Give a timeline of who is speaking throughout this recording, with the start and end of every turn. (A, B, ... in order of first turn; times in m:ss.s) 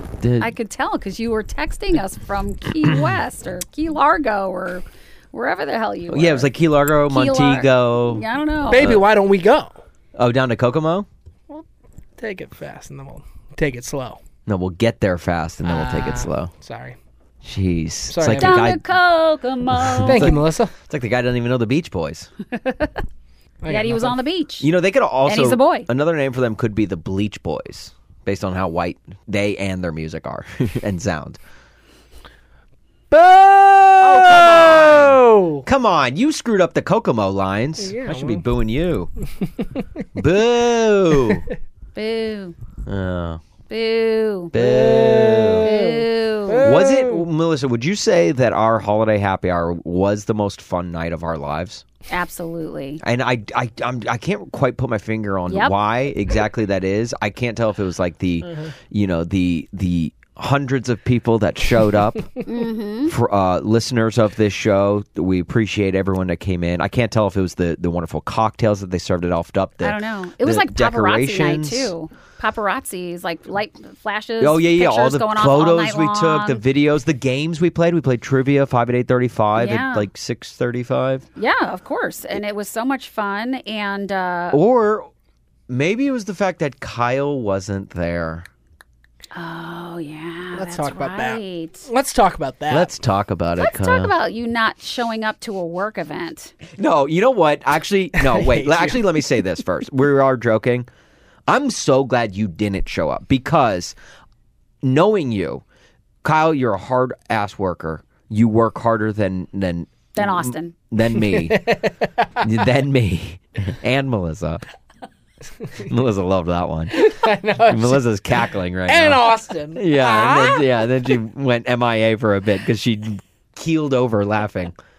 0:00.2-0:00.5 A
0:00.4-0:06.5 B
0:06.1-0:09.0 A
0:07.0-0:09.0 B
0:08.7-0:09.8 C
0:10.1-0:11.1 A
0:12.2-0:14.2 C
0:14.4-0:16.5 A
0:15.6-0:17.0 C
0:17.4-0:18.8 A
0:18.1-0:18.7 C
0:18.4-0:20.4 B
0:19.9-0:22.3 A
0:20.0-0:20.7 C
0:22.6-0:22.9 B
0:23.6-0:24.2 C
0:23.7-0:24.7 B
0:24.6-0:31.4 A
0:25.2-0:25.9 B
0:33.1-0:35.6 C
0:34.0-0:39.1 A
0:37.8-0:38.4 C
0:40.2-0:41.4 A
0:41.9-0:42.5 B
0:42.8-0:43.4 A
0:43.7-0:44.5 B
0:44.5-0:45.7 A
0:44.5-0:47.3 C
0:45.6-0:46.7 B
0:46.6-0:51.8 A
0:52.1-0:53.0 B
0:53.0-1:02.4 A
0:55.5-0:55.7 B
1:02.4-1:03.1 B
1:03.0-1:11.9 A
1:09.8-1:16.6 B
1:14.4-1:21.3 A
1:19.5-1:20.1 B
1:21.4-1:24.6 B
1:24.5-1:25.1 A
1:25.7-1:28.4 A
1:29.3-1:31.9 B
1:30.5-1:32.9 C
1:32.7-1:34.1 A
1:33.6-1:36.5 B
1:36.8-1:40.9 A
1:38.2-1:39.0 C
1:41.5-1:43.9 A
1:44.8-1:45.6 A
1:46.2-1:51.6 A
1:50.2-1:50.7 B
1:51.1-1:52.4 C
1:52.4-1:54.6 A
1:55.8-1:57.0 A
1:56.9-2:00.6 C
1:57.6-2:04.7 A